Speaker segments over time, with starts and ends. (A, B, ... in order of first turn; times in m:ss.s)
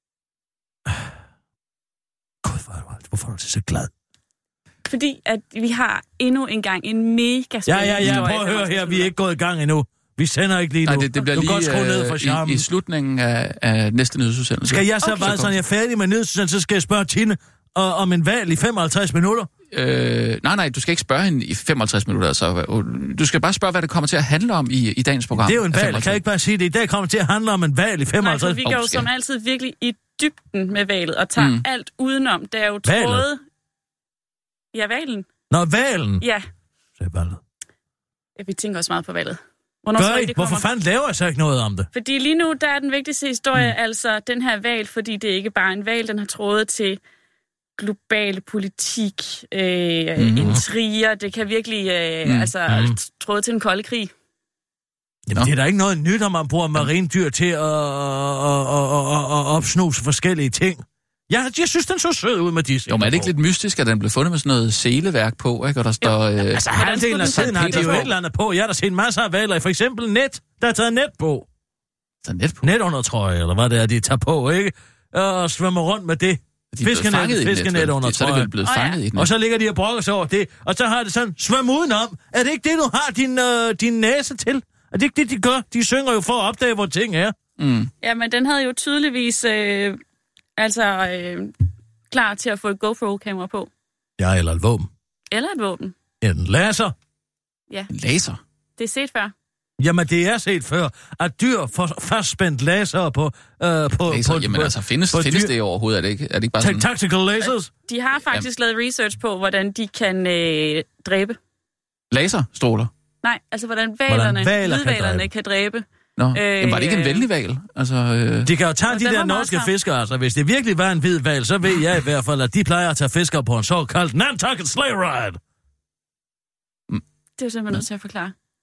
0:02.4-0:03.9 A
0:04.9-0:09.1 B
0:07.7-0:12.7 A
0:10.9-0:15.5 C
0:14.7-0:19.5 A
0:15.0-0:15.4 B
0:19.7-0:26.2 C
0:25.3-0:28.7 A
0:28.2-0:33.4 B
0:28.7-0:29.0 C
0:31.4-0:31.6 C
0:32.8-0:33.3 A
0:34.7-0:35.3 B
0:35.5-0:36.2 A
0:37.0-0:37.4 A
0:38.4-0:40.7 B
0:40.0-0:41.9 A
0:41.9-0:47.0 B
0:47.8-0:54.1 B
0:50.2-0:50.5 C
0:52.2-0:52.5 C
0:52.7-0:53.0 A
0:55.3-1:03.3 A
1:02.9-1:08.1 C
1:06.0-1:08.1 B
1:06.6-1:11.5 A
1:12.2-1:12.7 C
1:12.6-1:18.5 A
1:16.7-1:19.3 C
1:18.6-1:19.0 B
1:19.2-1:27.4 A
1:27.6-1:27.9 C
1:28.0-1:30.0 B
1:30.6-1:31.5 B
1:32.1-1:33.7 B
1:34.2-1:34.9 A
1:35.3-1:36.0 B
1:36.2-1:37.0 A
1:37.9-1:38.4 C
1:38.8-1:39.3 B
1:39.8-1:45.5 A
1:44.1-1:46.9 C
1:46.6-1:47.7 A
1:47.9-1:51.4 B
1:48.2-1:48.5 C
1:52.1-1:52.9 C
1:53.2-1:57.2 B
1:54.1-1:55.3 A
1:56.2-1:58.5 C
1:58.4-2:05.4 A
1:58.9-1:59.7 B
2:07.4-2:08.3 B